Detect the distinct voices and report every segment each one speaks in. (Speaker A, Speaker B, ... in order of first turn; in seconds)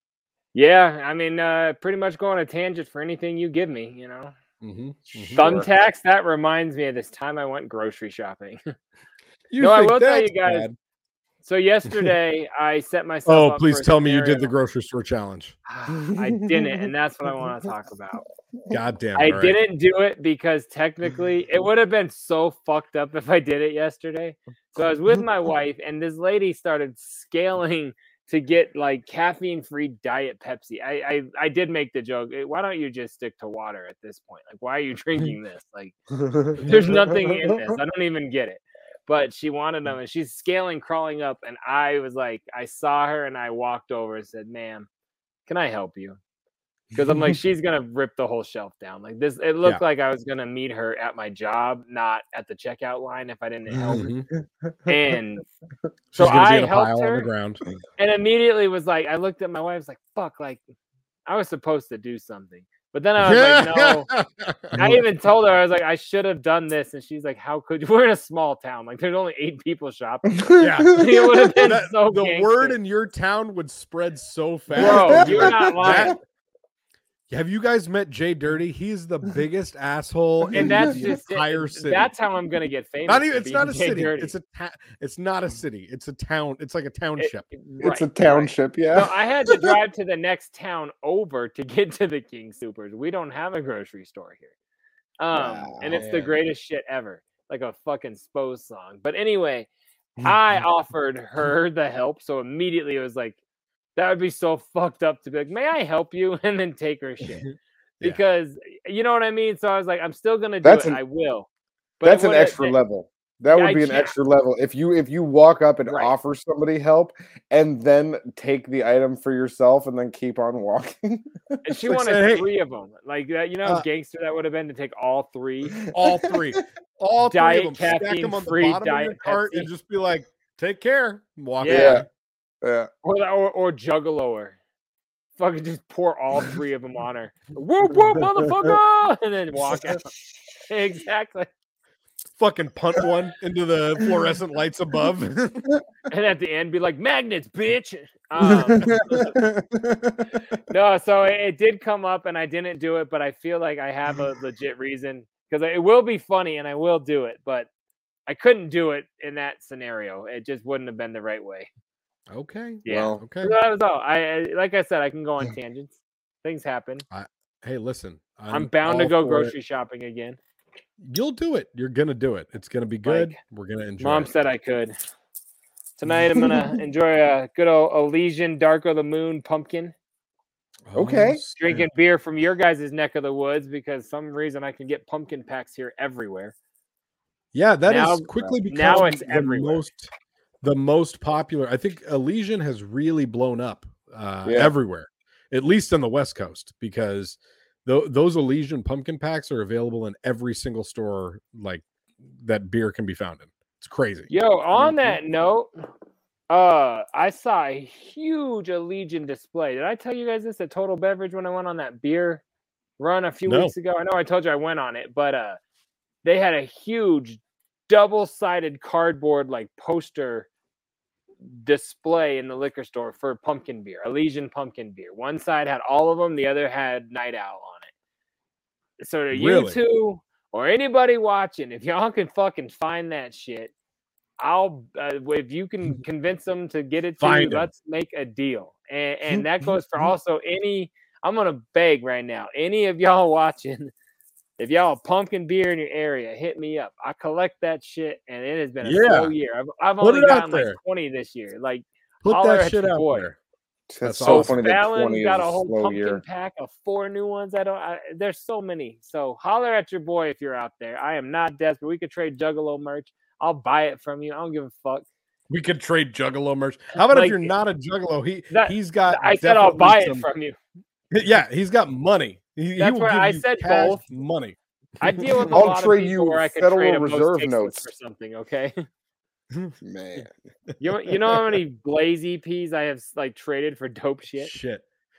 Speaker A: 0.5-4.3, 5.3-8.6, 9.6-10.7, 11.4-14.5, 15.7-18.2, 19.1-36.0, 36.6-44.9, 45.5-46.2, 47.0-54.1, 54.9-55.4, 56.2-57.3, 58.0-60.6, 61.3-64.1, 64.8-70.4, 70.9-72.8, 74.8-76.2, 80.5-84.3, 87.2-94.5, 95.2-99.7, 100.2-103.4, 104.0-107.5, 108.0-111.5, 112.0-112.8, 113.5-114.2, 115.9-116.1, 121.6-125.8, 127.3-129.7, 131.6-132.0, 133.0-134.6, 135.4-140.1, 140.7-141.5, 146.1-149.3, 150.7-157.7, 158.3-161.7, 162.8-167.0, 168.5-170.4, 173.1-173.4, 174.0-174.9, 176.0-179.9, 181.6-186.5, 187.9-189.8, 204.3-205.7, 206.5-212.4, 213.0-215.6, 216.2-220.5, 221.4-227.9, 229.0-233.7, 234.4-243.9, 244.6-253.3, 254.2-265.1, 267.1-267.5, 268.5-270.6, 272.8-274.0, 275.0-278.9, 280.8-284.5
Speaker B: 4.6-5.4, 9.5-10.8, 13.3-15.6, 18.7-19.6, 53.8-54.3, 56.1-57.6, 63.2-65.0, 70.6-71.0, 71.6-76.2, 77.3-82.1, 83.1-87.5, 95.9-96.3, 121.8-122.5, 125.9-132.1, 142.4-145.6, 162.3-163.5, 167.1-169.6, 171.0-174.3, 180.9-181.9, 187.5-190.1, 190.6-201.8, 202.4-204.3, 213.5-213.7, 229.3-229.8, 237.2-237.7, 248.8-249.3, 250.0-250.8, 252.2-253.4, 254.0-254.6, 265.5-270.3, 271.1-274.6, 284.3-284.8
Speaker C: 5.1-5.7, 16.2-16.7, 36.2-37.6, 70.4-71.6, 74.7-76.1, 80.5-80.8, 87.8-89.1, 95.3-96.1, 110.6-111.0, 112.0-121.2, 131.6-132.1, 132.6-132.9, 148.4-150.3, 162.9-163.2, 176.4-176.7, 180.9-181.4, 194.4-194.7, 253.9-256.2, 275.5-277.8, 279.8-280.3